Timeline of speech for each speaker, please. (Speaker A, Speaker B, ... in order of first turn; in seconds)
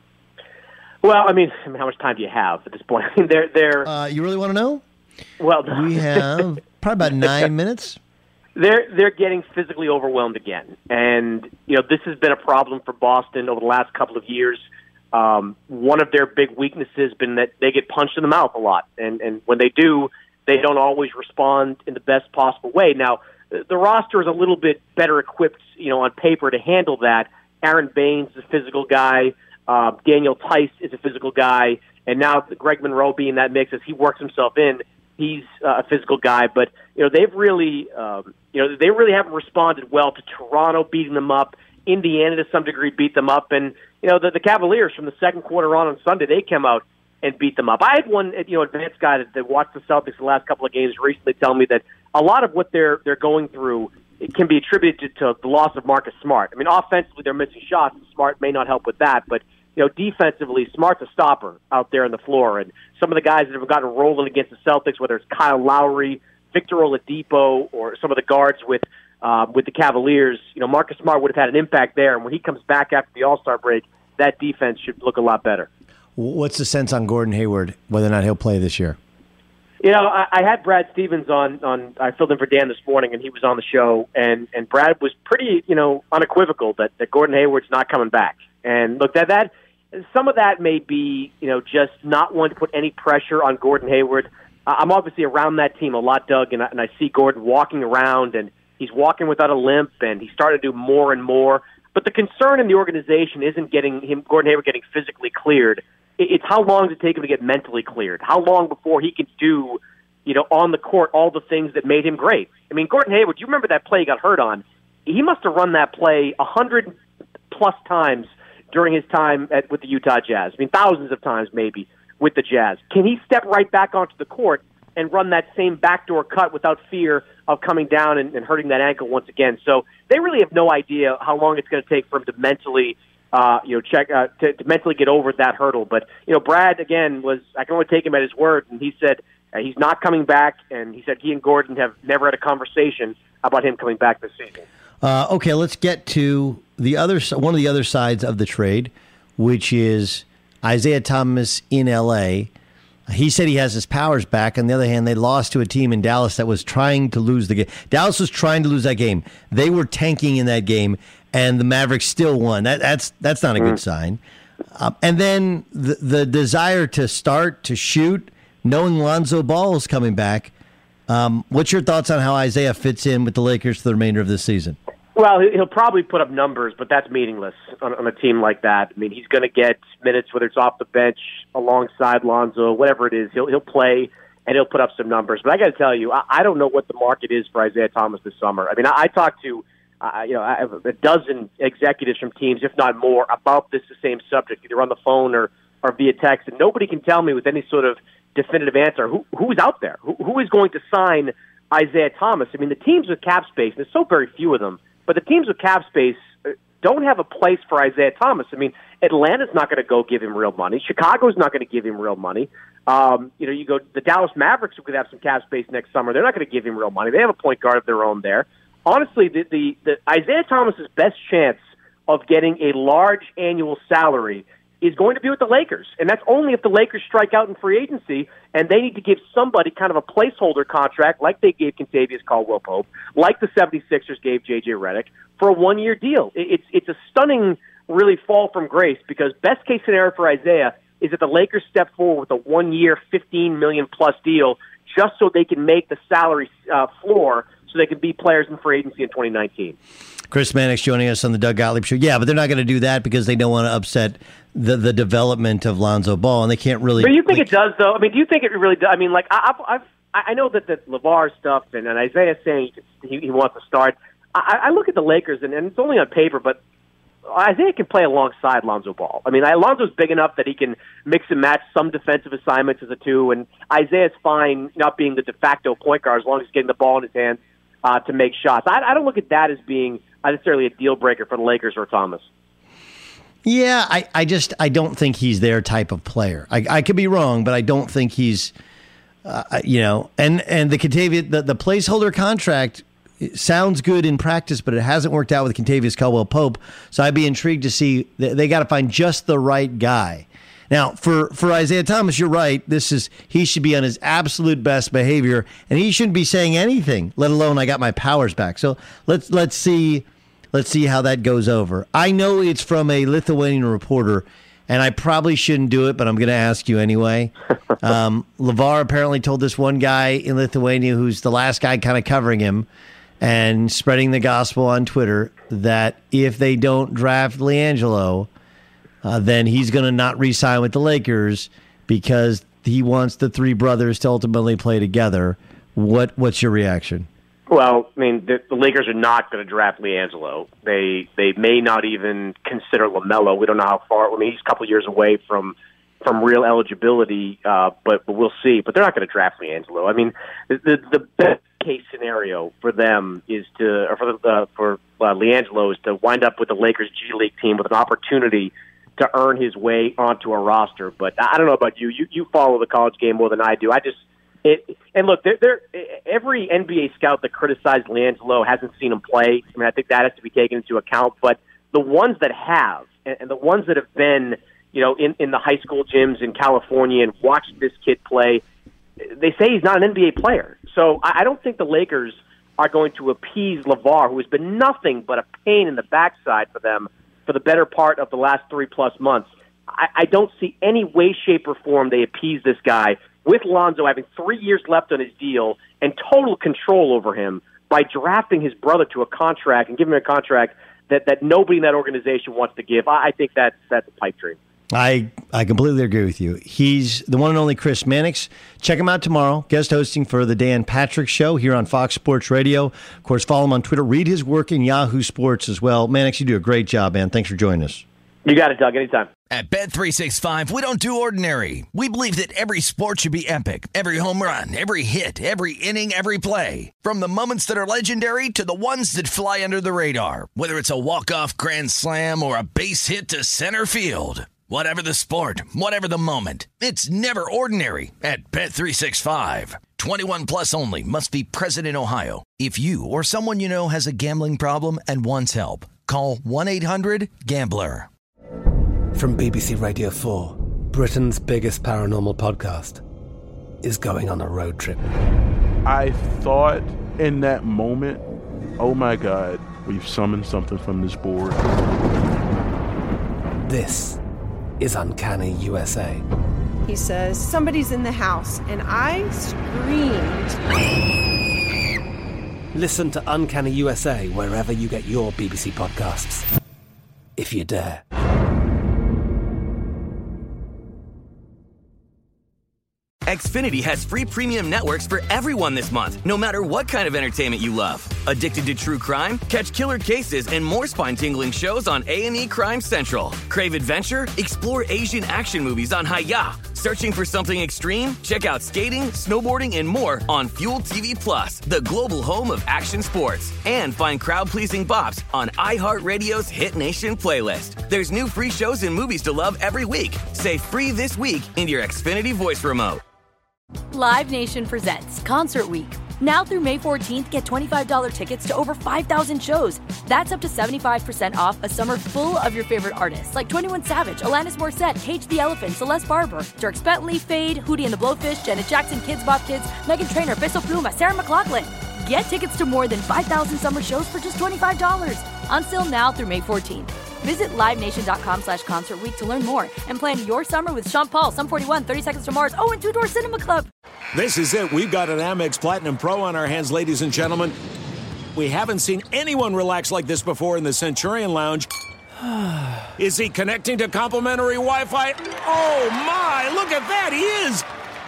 Speaker A: 1.0-3.9, 5.4-6.5, 8.6-14.6, 15.1-75.7, 79.8-117.0, 117.5-144.6, 175.2-249.8, 257.0-266.6, 267.3-282.3, 337.5-378.4, 379.1-404.4, 418.2-419.1
Speaker B: 3.9-4.8, 5.7-8.0, 76.2-79.0, 145.0-152.5, 153.1-164.2, 164.8-170.5, 171.1-174.8, 250.3-257.5, 283.4-288.5, 289.2-322.7, 323.2-328.3, 329.0-337.1, 404.7-417.8
Speaker C: 419.3-447.9
Speaker D: 448.9-452.8, 453.6-454.9, 463.5-464.0, 464.6-466.0, 472.5-476.3, 477.2-477.9
Speaker E: 455.6-458.0, 458.6-461.4
Speaker F: 466.6-470.4
Speaker G: 483.1-512.8
Speaker H: 513.7-543.5
Speaker I: 543.9-547.4, 548.1-551.5, 552.8-557.5